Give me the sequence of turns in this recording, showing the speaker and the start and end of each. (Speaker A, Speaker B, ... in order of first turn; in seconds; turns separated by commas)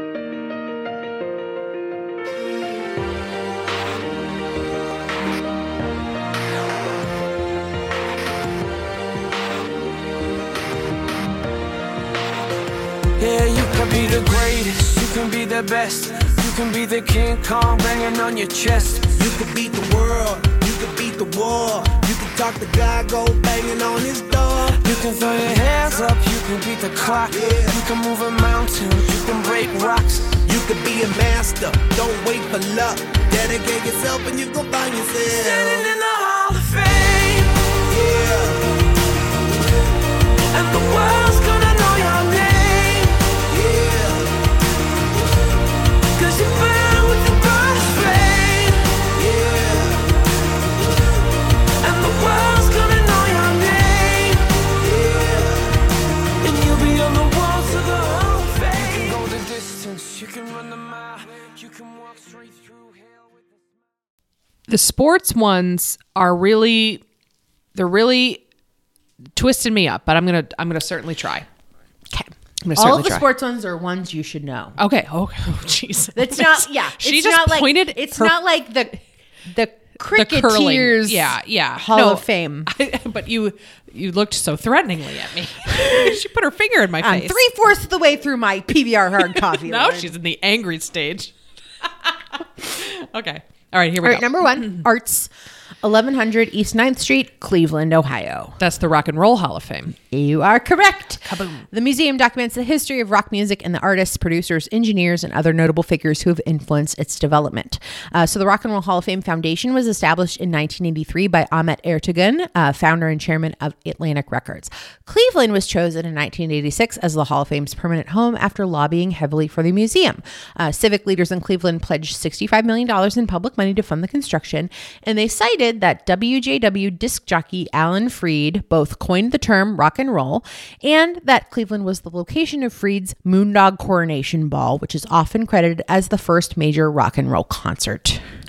Speaker A: 13.2-19.1, Speaker B: 19.1-24.8, Speaker A: 24.8-30.4, Speaker B: 27.3-27.8, Speaker B: 30.5-35.9, Speaker A: 35.3-37.8, Speaker B: 37.9-38.7, Speaker A: 40.5-43.3, Speaker B: 43.5-44.3, Speaker A: 46.1-49.2, Speaker B: 49.2-50.0, Speaker A: 51.8-55.5, Speaker A: 56.4-63.6, Speaker C: 64.7-67.0, Speaker C: 67.8-68.4, Speaker C: 69.4-71.5, Speaker D: 72.1-74.8, Speaker C: 72.7-73.3, Speaker C: 74.8-78.3, Speaker D: 76.2-82.7, Speaker C: 80.0-87.4, Speaker D: 85.7-86.2, Speaker D: 87.0-90.1, Speaker C: 89.3-94.8, Speaker D: 94.0-95.3, Speaker D: 95.8-98.6, Speaker C: 98.6-100.0, Speaker D: 100.0-138.2, Speaker C: 101.2-101.7